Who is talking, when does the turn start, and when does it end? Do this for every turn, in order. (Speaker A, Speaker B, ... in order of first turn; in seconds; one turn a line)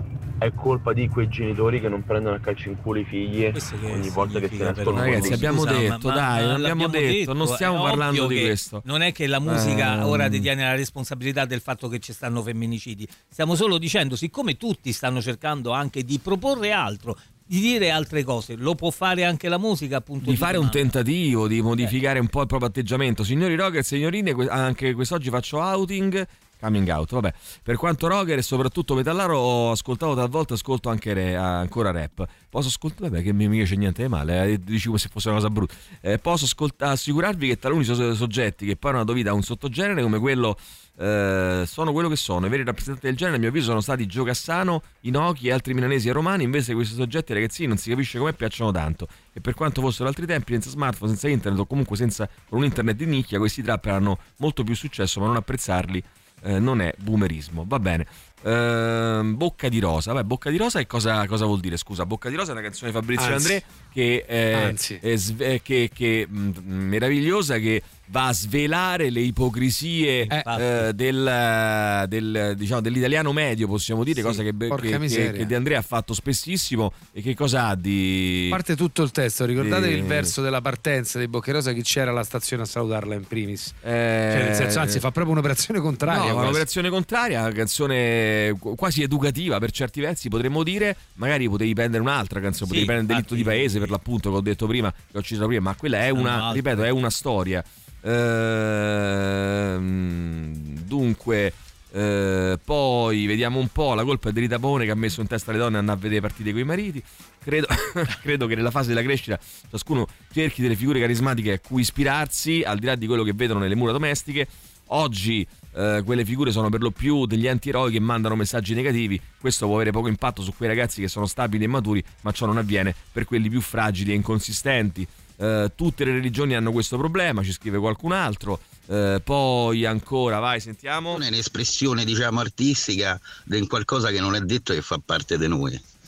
Speaker A: 0.4-5.6
Speaker B: 3.5-20.9
Speaker C: 4.9-8.8
Speaker C: 9.4-10.5
Speaker C: 20.2-78.6
Speaker D: 63.1-63.6
Speaker D: 64.5-65.0
Speaker B: 70.2-70.9
Speaker B: 74.1-74.4
Speaker D: 74.7-75.5
Speaker D: 78.5-83.8
Speaker C: 79.6-80.3
Speaker C: 83.8-85.0
Speaker D: 84.3-86.6
Speaker C: 86.0-131.2
Speaker B: 92.6-93.9
Speaker B: 96.1-96.9
Speaker E: 131.2-135.8